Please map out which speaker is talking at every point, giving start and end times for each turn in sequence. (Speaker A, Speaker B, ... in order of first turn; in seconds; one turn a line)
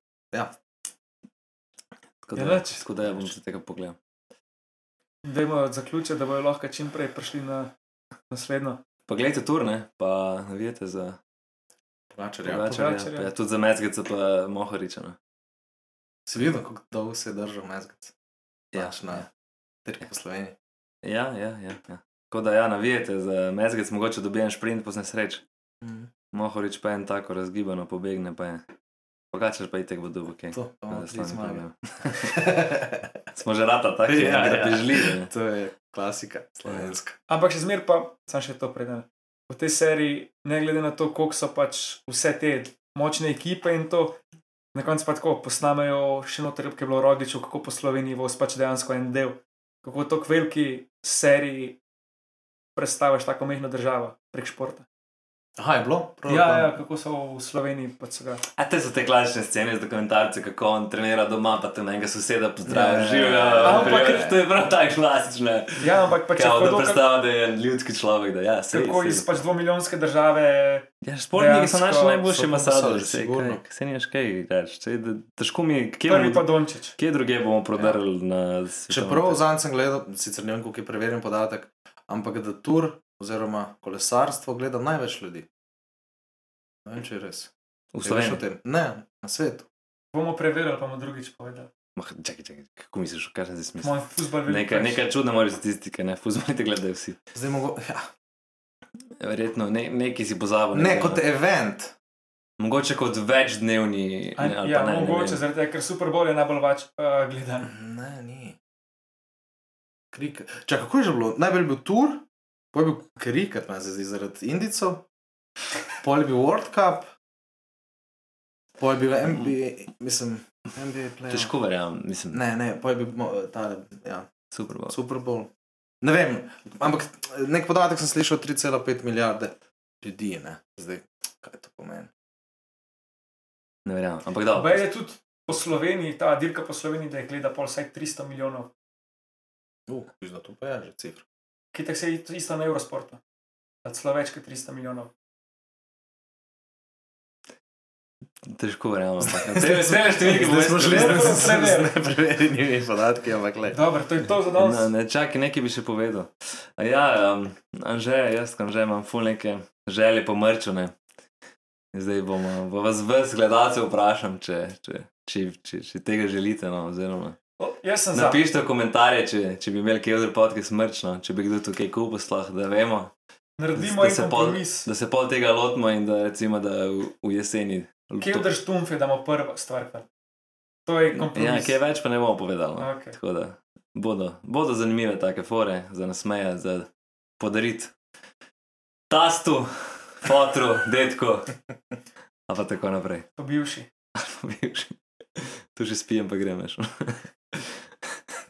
Speaker A: 2.2-4.0
Speaker B: 2.4-2.8
Speaker B: 5.2-7.7
Speaker B: 8.3-8.8
Speaker A: 9.1-11.2
Speaker C: 12.1-12.8
Speaker A: 12.4-15.2
Speaker B: 12.7-13.3
Speaker C: 16.3-18.1
Speaker C: 18.7-19.3
Speaker A: 18.7-19.3
Speaker C: 19.9-20.6
Speaker A: 21.0-25.4
Speaker C: 25.8-26.1
Speaker A: 26.3-28.6
Speaker A: 29.3-32.5
Speaker C: 30.5-33.1
Speaker A: 33.3-35.3
Speaker C: 34.1-37.2
Speaker B: 37.3-44.2
Speaker B: 44.7-51.8
Speaker B: 52.8-54.9
Speaker C: 55.6-56.7
Speaker B: 56.3-58.4
Speaker A: 58.6-69.4
Speaker C: 62.7-64.4
Speaker B: 63.6-64.3
Speaker B: 65.8-67.0
Speaker B: 68.7-72.2
Speaker A: 71.0-79.4
Speaker C: 72.2-73.6
Speaker B: 76.1-77.0
Speaker C: 77.8-78.0
Speaker C: 78.9-85.5
Speaker C: 86.8-87.5
Speaker A: 87.9-88.4
Speaker C: 88.0-89.7
Speaker B: 90.1-91.7
Speaker A: 92.0-97.2
Speaker B: 93.8-95.0
Speaker C: 97.3-98.1
Speaker A: 99.2-101.2
Speaker C: 100.7-102.0
Speaker A: 102.6-105.4
Speaker B: 104.4-107.7
Speaker C: 107.7-108.6
Speaker C: 110.1-115.1
Speaker C: 116.0-117.1
Speaker C: 118.8-121.5
Speaker A: 121.3-122.4
Speaker C: 122.3-124.3
Speaker A: 124.5-125.0
Speaker C: 124.9-125.5
Speaker C: 126.0-132.1
Speaker A: 133.9-134.8
Speaker B: 134.5-138.7
Speaker C: 139.9-141.2
Speaker B: 141.7-143.2
Speaker B: 143.8-145.1
Speaker A: 148.5-151.5
Speaker C: 149.2-153.8
Speaker B: 150.6-151.9
Speaker B: 153.7-154.9
Speaker A: 154.6-160.9
Speaker A: 161.9-167.4
Speaker B: 167.6-168.4
Speaker A: 168.1-173.1
Speaker B: 173.6-174.9
Speaker A: 173.8-178.5
Speaker B: 178.2-180.1
Speaker B: 180.9-181.8
Speaker A: 181.1-186.9
Speaker B: 182.8-183.2
Speaker A: 187.4-187.9
Speaker A: 189.1-191.6
Speaker A: 192.5-193.3
Speaker B: 193.4-193.9
Speaker A: 194.2-197.8